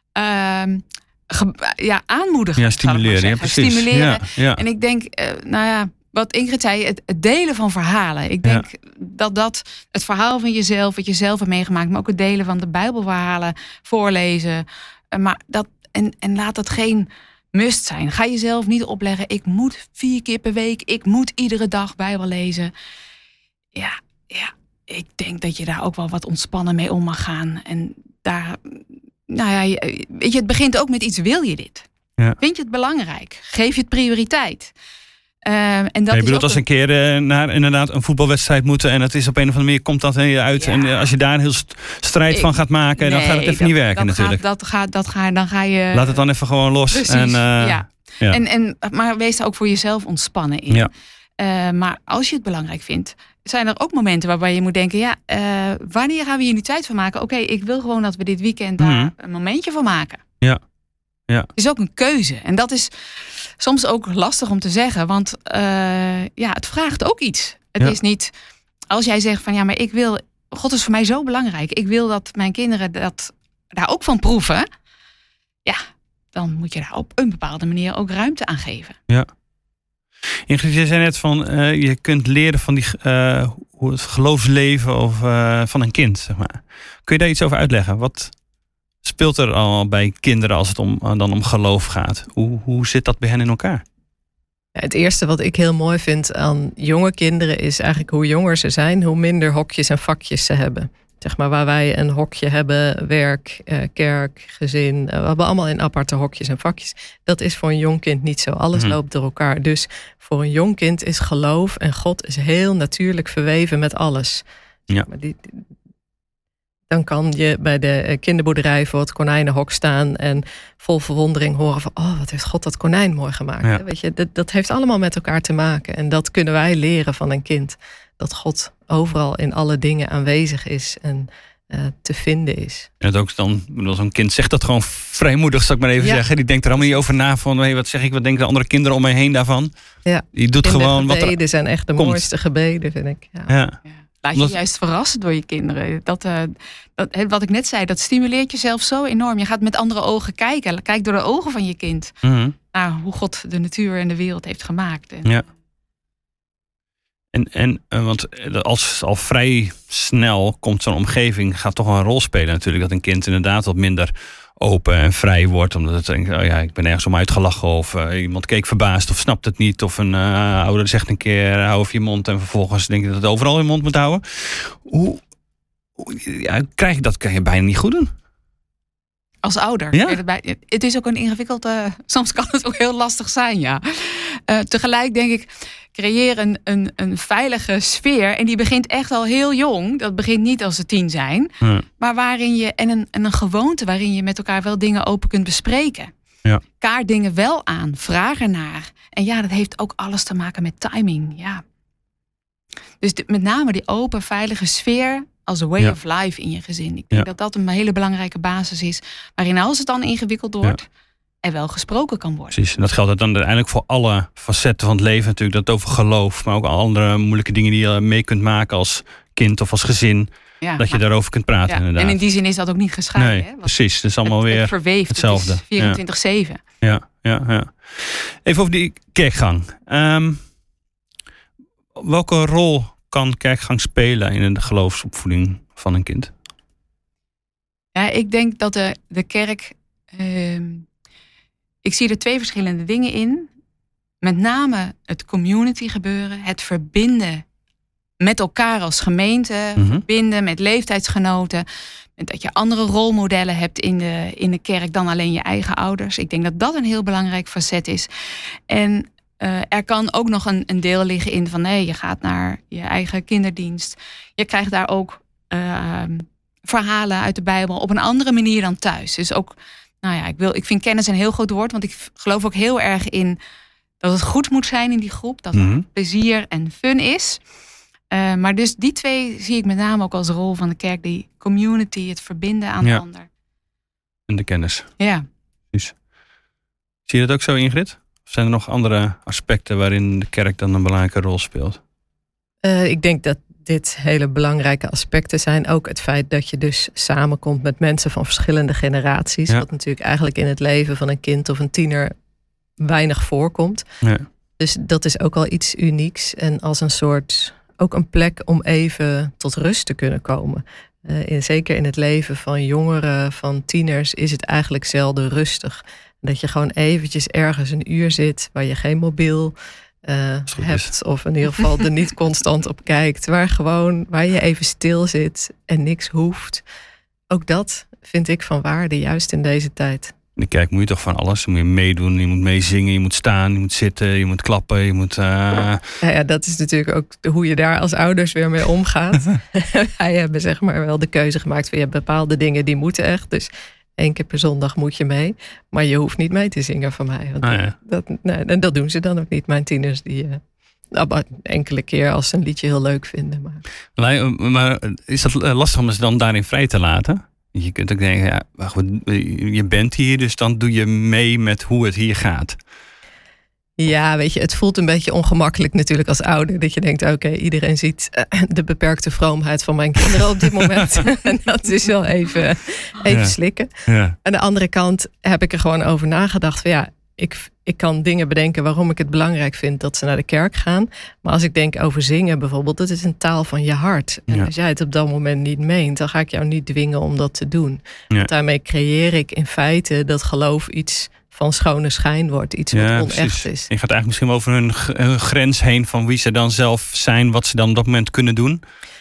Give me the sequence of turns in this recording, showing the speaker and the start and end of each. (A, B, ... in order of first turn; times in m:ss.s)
0:00.2-0:22.7 A
0:02.6-0:04.6 B
0:23.8-0:34.7 A
0:35.4-0:36.6 A
0:36.1-0:44.4 B
0:40.6-0:41.1 A
0:42.3-0:46.2 A
0:45.9-0:48.4 B
0:46.9-1:00.2 A
0:58.8-0:59.1 B
1:01.6-1:02.9 A
1:03.4-1:08.3 A
1:08.9-1:14.7 A
1:16.3-1:19.0 A
1:20.5-1:28.3 B
1:29.0-1:33.8 B
1:34.8-1:54.4 C
1:55.1-1:55.6 C
1:56.9-2:12.9 C
2:13.0-2:19.7 B
2:16.0-2:16.2 C
2:20.0-2:23.5 C
2:20.3-2:21.4 B
2:22.0-2:22.2 B
2:23.5-2:23.8 B
2:23.9-2:32.2 A
2:32.2-2:32.6 B
2:32.7-2:35.4 A
2:37.3-2:55.2 B
2:56.0-2:58.1 B
2:59.4-3:16.1 A
2:59.9-3:00.2 B
3:16.8-3:21.6 A
3:23.0-3:30.9 A
3:31.4-3:32.6 A
3:32.5-3:42.2 B
3:40.6-3:41.0 A
3:41.7-3:43.7 A
3:43.2-3:46.0 B
3:44.2-3:46.6 A
3:46.8-3:50.4 B
3:52.0-3:56.3 B
3:58.0-4:00.9 A
4:01.8-4:03.5 A
4:04.2-4:07.4 A
4:08.2-4:11.6 A
4:09.8-4:10.0 B
4:12.2-4:18.1 A
4:18.7-4:33.4 A
4:34.0-4:37.4 A
4:35.5-4:35.9 B
4:38.1-4:43.3 A
4:44.3-4:44.9 B
4:45.0-4:45.2 A
4:47.1-4:51.8 B
4:52.6-5:02.1 C
5:02.8-5:03.8 C
5:04.6-5:26.6 C
5:20.5-5:20.9 B
5:27.3-5:30.1 C
5:30.4-5:35.8 B
5:36.0-5:50.4 C
5:47.4-5:47.8 B
5:50.9-5:53.6 C
5:54.0-6:02.6 B
6:03.8-6:33.7 C
6:13.9-6:14.2 B
6:32.7-6:38.6 B